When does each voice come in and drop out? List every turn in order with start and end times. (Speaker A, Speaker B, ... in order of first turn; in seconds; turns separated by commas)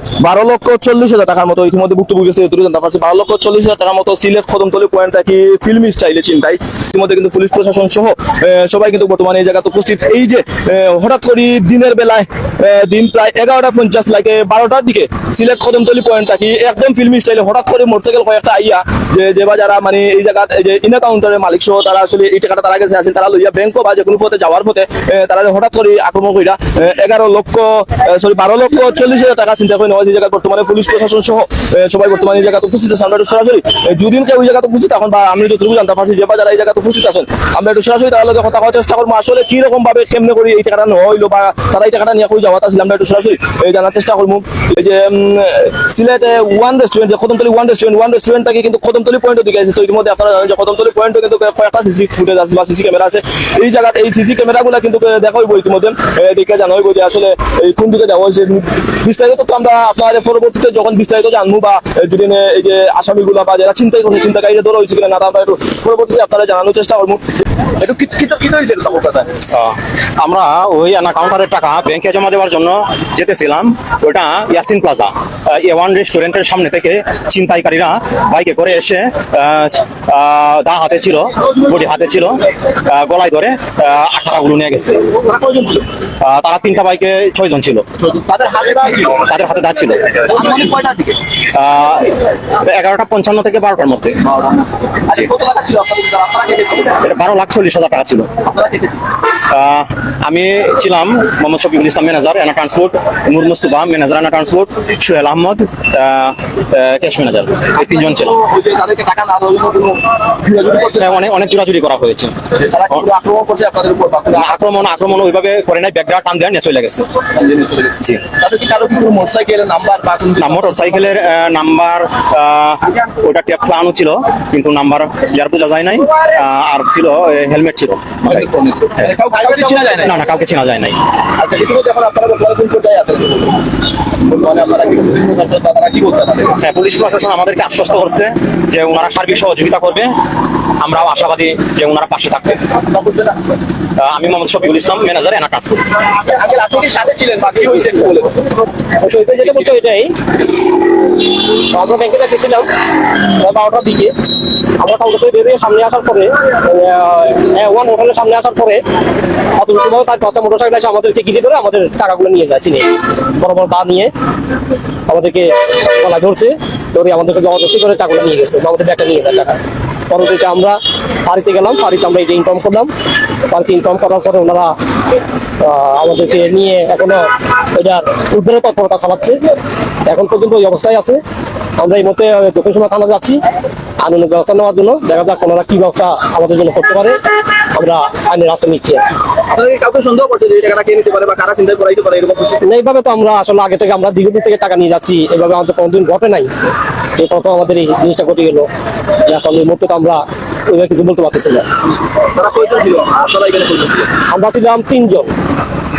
Speaker A: 0.2-67.2, Speaker A: 67.8-69.3, Speaker B: 69.5-85.1, Speaker A: 85.1-85.9, Speaker B: 86.2-87.8, Speaker A: 88.0-89.3, Speaker B: 89.1-90.0, Speaker A: 90.1-91.3, Speaker B: 91.5-94.2, Speaker A: 95.1-97.0, Speaker B: 97.0-98.3, Speaker A: 98.4-99.0, Speaker B: 99.5-108.4, Speaker A: 107.8-111.2, Speaker B: 111.0-112.3, Speaker A: 112.6-114.6, Speaker B: 114.3-117.1, Speaker A: 117.3-121.1, Speaker B: 120.4-128.5, Speaker A: 128.2-130.2, Speaker B: 129.0-131.0, Speaker A: 131.4-133.6, Speaker A: 134.2-136.6, Speaker B: 136.6-140.1, Speaker B: 140.8-142.7, Speaker A: 142.7-143.5, Speaker B: 144.0-145.8, Speaker A: 146.1-148.4, Speaker C: 149.0-150.1, Speaker A: 149.2-149.7, Speaker C: 151.5-154.1, Speaker C: 154.8-158.8, Speaker C: 159.6-164.1, Speaker C: 165.1-172.9, Speaker C: 173.5-174.8, Speaker C: 175.6-179.5, Speaker C: 180.1-181.2, Speaker C: 181.8-183.4, Speaker C: 184.0-189.1, Speaker A: 189.5-192.6, Speaker C: 192.7-196.5, Speaker C: 197.2-198.7, Speaker C: 199.3-201.7, Speaker A: 202.3-204.1, Speaker C: 204.3-205.3